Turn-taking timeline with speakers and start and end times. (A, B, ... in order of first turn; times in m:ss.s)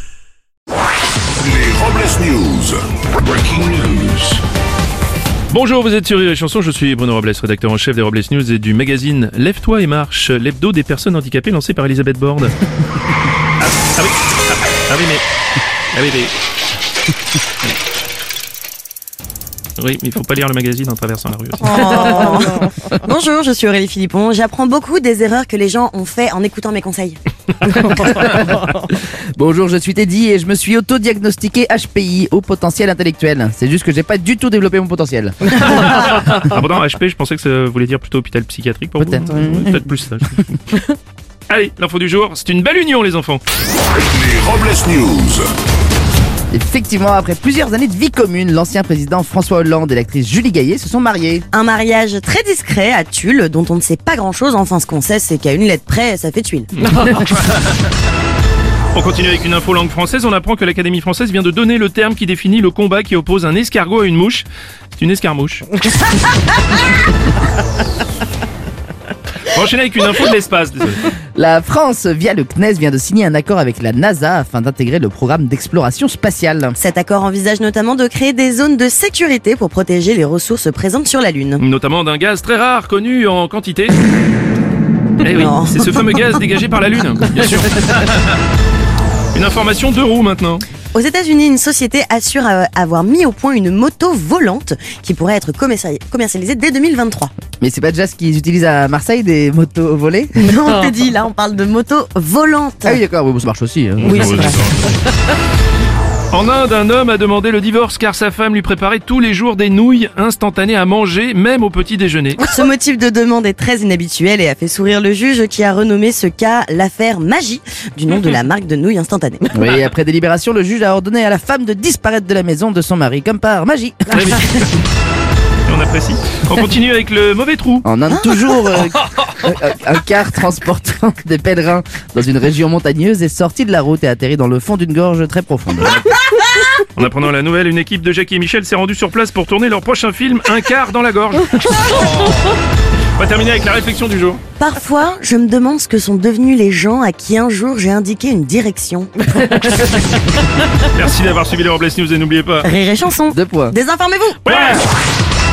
0:01.4-0:04.4 A
0:05.5-0:12.5 B
0:13.6-0:15.2 B
0:15.9-0:16.3 B
0:19.8-0:22.1 B
0:21.6-0:27.2 C
0:27.8-0:36.0 D
0:35.6-0:40.8 B
0:39.0-0:39.8 D
0:41.5-0:43.4 B
0:44.0-0:45.5 A
0:46.5-0:51.4 D
0:51.5-0:56.7 C
0:56.9-0:57.5 B
0:58.9-1:05.7 B
1:09.4-1:11.1 B
1:11.3-1:16.8 D
1:16.8-1:21.6 C
1:21.6-1:24.0 B
1:25.2-1:28.4 B
1:25.2-1:26.0 C
1:29.3-1:30.6 B
1:30.9-1:37.3 C
1:37.6-1:40.4 D
1:40.4-1:43.0 C
1:42.8-1:44.6 D
1:44.0-1:45.0 B
1:44.0-1:44.8 C
1:46.3-1:52.4 B
1:52.4-1:59.5 C
1:59.5-2:04.4 D
2:04.1-2:04.8 B
2:05.6-2:07.8 B
2:07.8-2:16.0 D
2:08.1-2:08.6 C
2:15.8-2:22.6 B
2:23.2-2:24.4 B
2:24.6-2:29.6 C
2:29.4-2:30.1 B
2:30.8-2:32.7 B
2:32.6-2:34.8 C
2:33.3-2:33.7 D
2:34.4-2:34.8 B